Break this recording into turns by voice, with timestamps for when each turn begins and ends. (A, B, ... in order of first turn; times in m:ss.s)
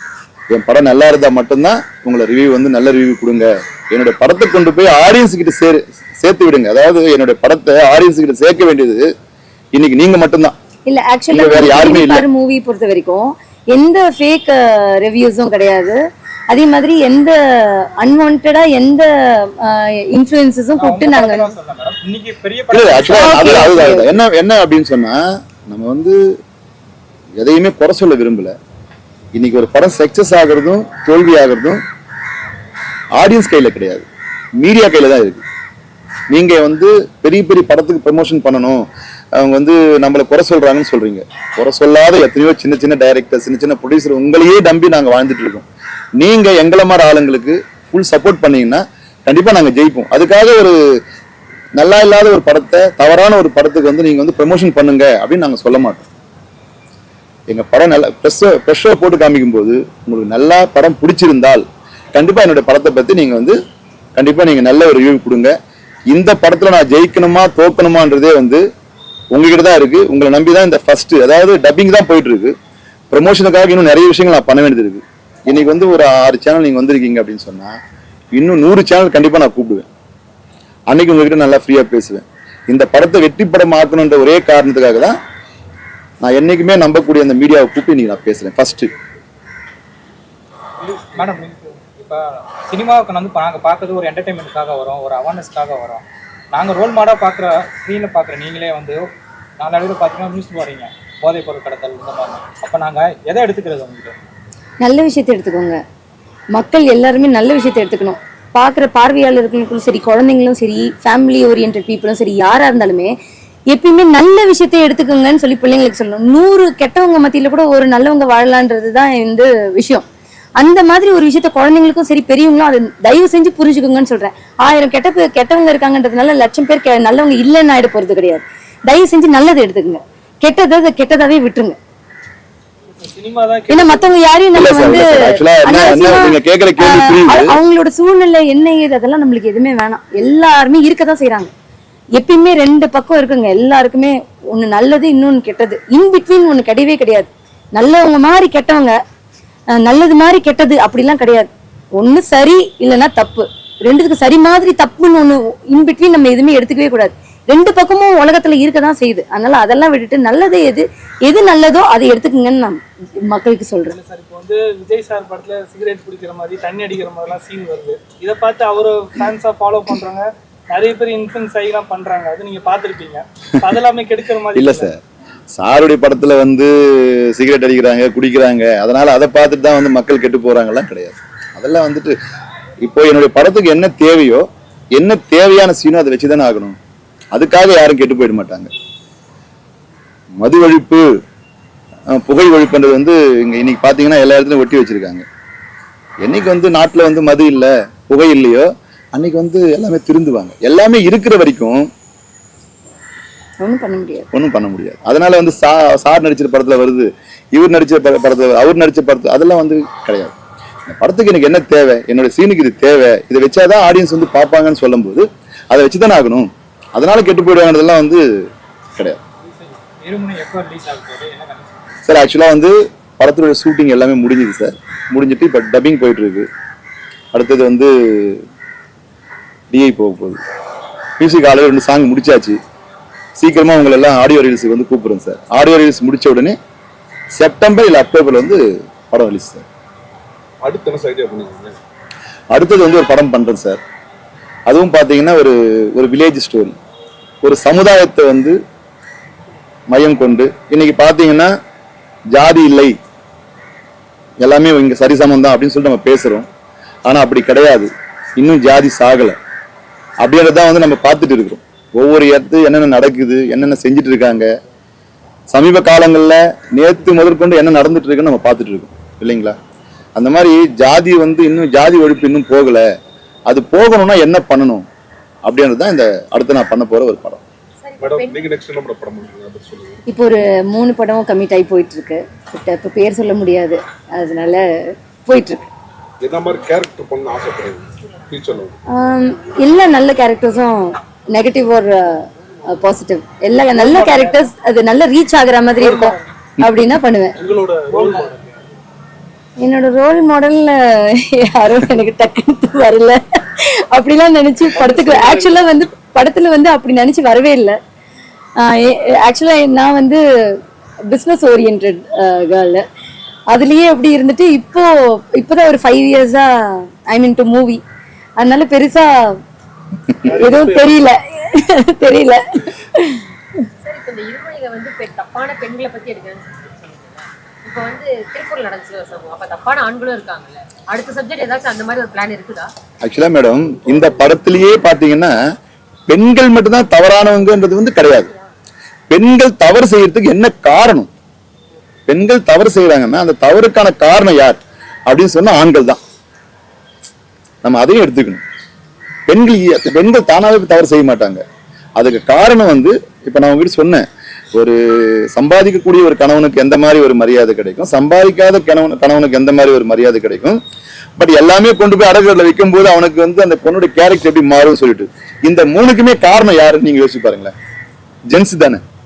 0:00.5-0:09.1 A
0:09.7-0:10.5 A
0:10.9-0:16.0 B
0:11.3-0:12.2 A
0:16.5-0:21.5 B
0:20.7-0:23.9 C
0:22.7-0:26.2 A
0:23.0-0:24.2 B
0:27.4-0:28.5 A
0:29.3-0:31.8 A
0:33.1-0:34.0 A
0:34.6-0:35.4 A
0:36.3-0:50.8 A
0:51.8-0:56.1 A
0:57.5-1:03.6 A
1:04.2-1:05.5 A
1:06.1-1:08.6 A
1:09.3-1:12.5 A
1:13.1-1:17.7 A
1:18.3-1:19.9 A
1:20.9-1:25.2 A
1:26.2-1:28.9 A
1:30.8-1:31.4 D
1:31.2-1:39.0 C
1:39.6-1:44.2 C
1:44.8-1:45.8 B
1:46.5-1:53.1 B
1:53.7-2:00.0 B
2:00.6-2:11.8 B
2:13.0-2:14.1 D
2:13.7-2:21.5 B
2:14.5-2:17.5 A
2:22.2-2:29.0 B
2:29.7-2:44.0 B
2:43.9-2:54.9 D
2:54.5-2:54.9 A
2:55.5-3:02.2 A
3:02.8-3:06.8 A
3:07.3-3:08.7 A
3:10.4-3:11.1 A
3:12.1-3:15.2 A
3:16.2-3:21.9 A
3:23.6-3:24.3 B
3:24.3-3:39.2 A
3:39.5-3:42.0 C
3:42.0-3:46.5 A
3:47.3-3:48.4 A
3:49.7-3:50.4 A
3:51.2-3:52.6 A
3:53.4-3:56.6 A
3:57.3-3:59.6 A
4:00.6-4:01.8 E
4:02.5-4:03.8 A
4:04.7-4:06.8 A
4:07.4-4:08.6 A
4:09.9-4:11.5 A
4:12.3-4:12.9 A
4:14.4-4:16.5 A
4:17.0-4:19.4 A
4:20.2-4:24.5 A
4:25.5-4:29.6 A
4:30.2-4:32.9 A
4:33.5-4:34.8 A
4:35.4-4:37.4 A
4:37.8-4:38.5 F
4:38.0-4:40.0 E
4:40.1-4:45.6 B
4:46.2-4:48.8 E
4:48.9-4:57.4 B
4:53.7-4:54.5 D
4:55.8-4:56.2 D
4:57.4-4:58.6 D
4:59.6-5:07.8 B
5:04.7-5:05.6 D
5:08.6-5:10.2 B
5:11.1-5:12.8 B
5:13.5-5:17.8 B
5:18.4-5:19.4 B
5:20.2-5:23.2 B
5:20.3-5:20.8 D
5:23.8-5:32.7 F
5:33.0-5:35.3 A
5:36.1-5:38.3 A
5:39.1-5:41.1 A
5:42.1-5:46.0 A
5:47.6-5:48.4 A
5:49.3-5:51.4 A
5:52.0-6:00.6 A
6:01.2-6:07.5 A
6:08.3-6:08.8 A